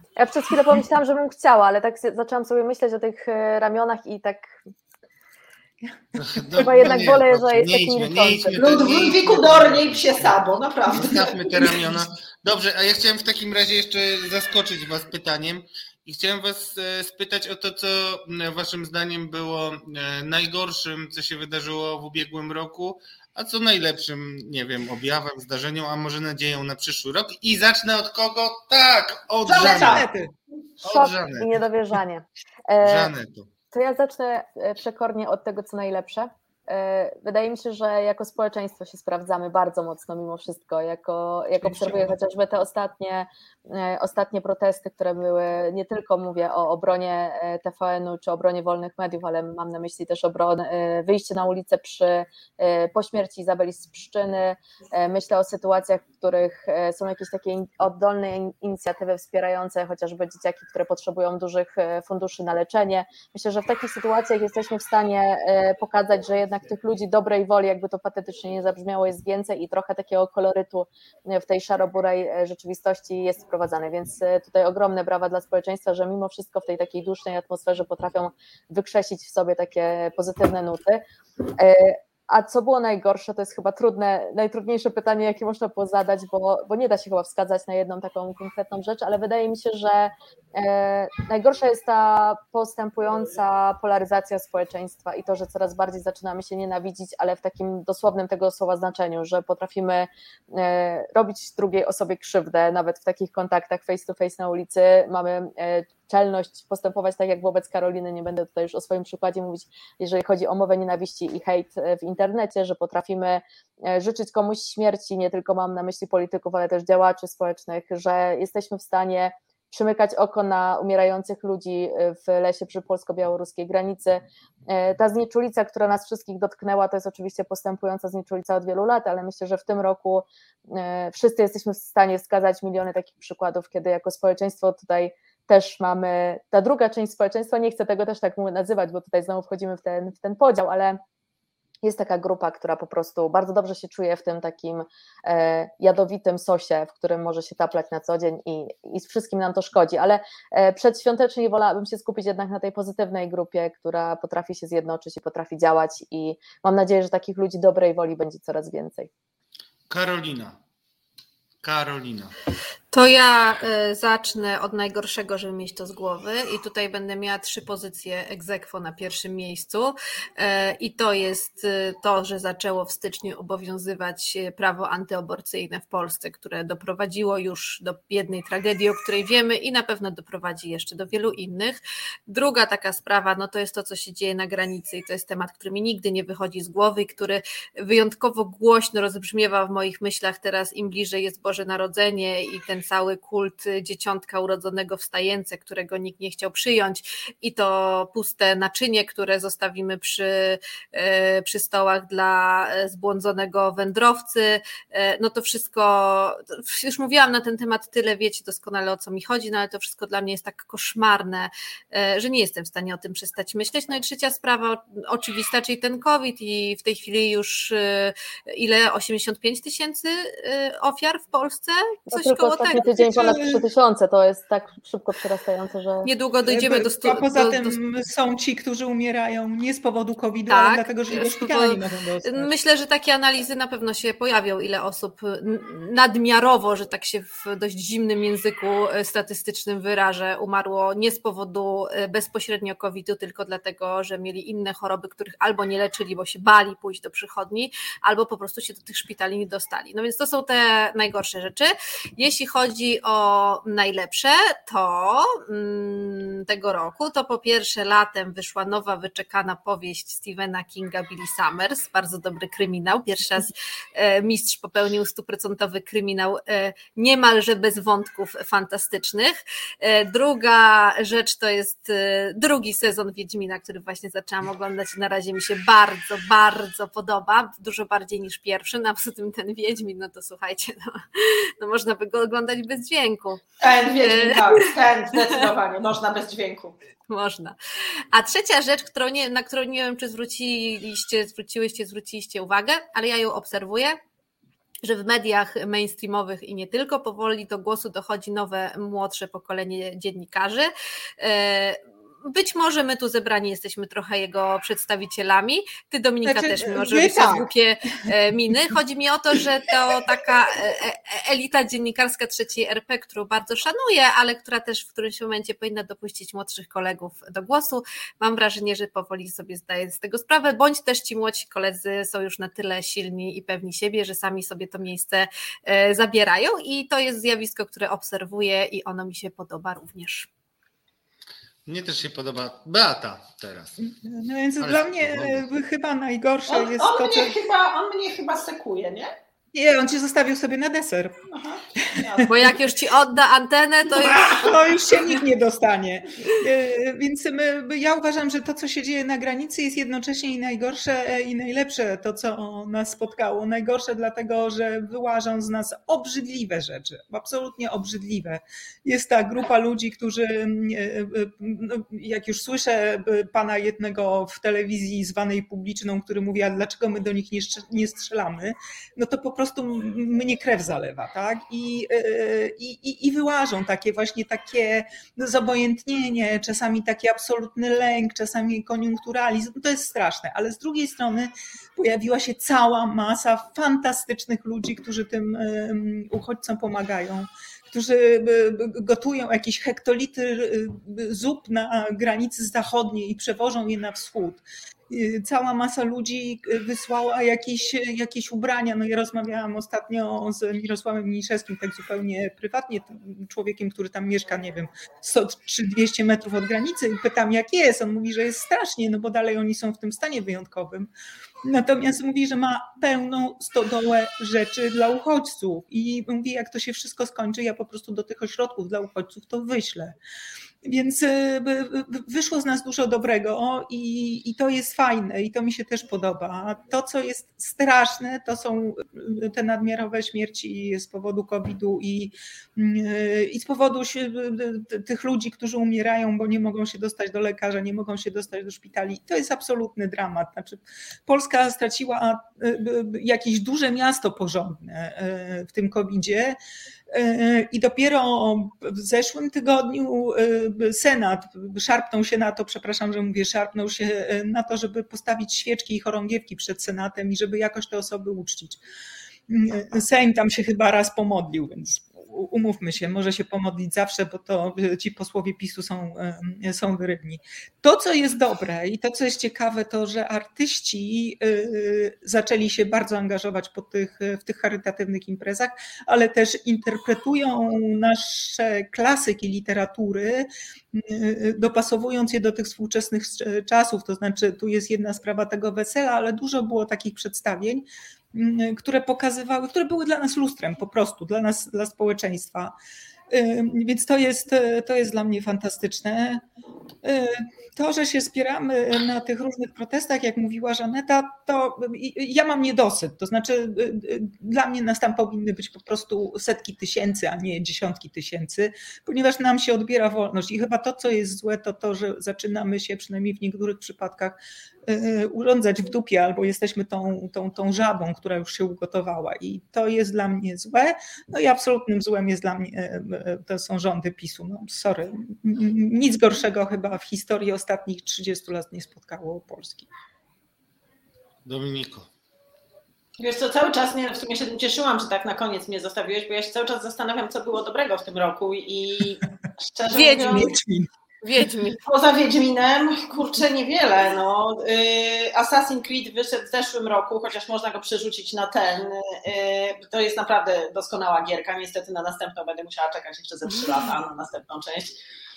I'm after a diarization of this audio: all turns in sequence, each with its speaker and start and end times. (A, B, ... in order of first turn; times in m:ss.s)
0:00.2-0:04.6 A
0:06.2-0:10.3 B
0:06.5-0:07.0 C
0:06.6-0:08.6 A
0:08.5-0:11.8 D
0:10.9-0:30.0 B
0:29.4-0:30.1 D
0:29.5-0:30.3 C
0:30.8-0:31.6 B
0:30.8-0:33.1 A
0:32.8-0:33.5 B
0:33.7-1:21.0 A
0:41.7-0:42.1 C
1:21.6-2:21.0 A
2:21.8-2:39.1 A
2:39.9-2:40.6 B
2:41.6-2:42.3 B
2:42.9-3:42.8 E
3:42.1-3:46.1 A
3:42.9-3:43.6 C
3:46.0-3:47.8 E
3:46.4-3:52.5 C
3:50.5-4:43.4 E
4:43.6-4:46.8 D
4:44.0-4:45.4 E
4:47.1-4:47.6 E
4:48.1-4:54.0 E
4:54.8-5:30.3 E
5:06.2-5:08.1 C
5:31.6-5:33.8 B
5:33.8-5:37.4 C
5:34.6-5:35.4 B
5:36.5-5:39.1 D
5:39.5-5:41.2 C
5:41.3-5:42.3 D
5:41.8-5:42.5 C
5:42.3-5:44.5 E
5:44.0-6:50.9 C
6:51.4-7:00.0 C
7:00.6-7:26.4 C
7:26.9-7:38.6 C
7:39.3-8:12.5 C
8:13.1-8:16.2 C
8:16.8-8:49.7 C
8:51.2-8:51.9 B
8:53.0-9:00.3 D
8:59.7-9:00.3 E
8:59.8-9:00.7 C
9:01.0-9:01.6 E
9:01.5-9:14.8 D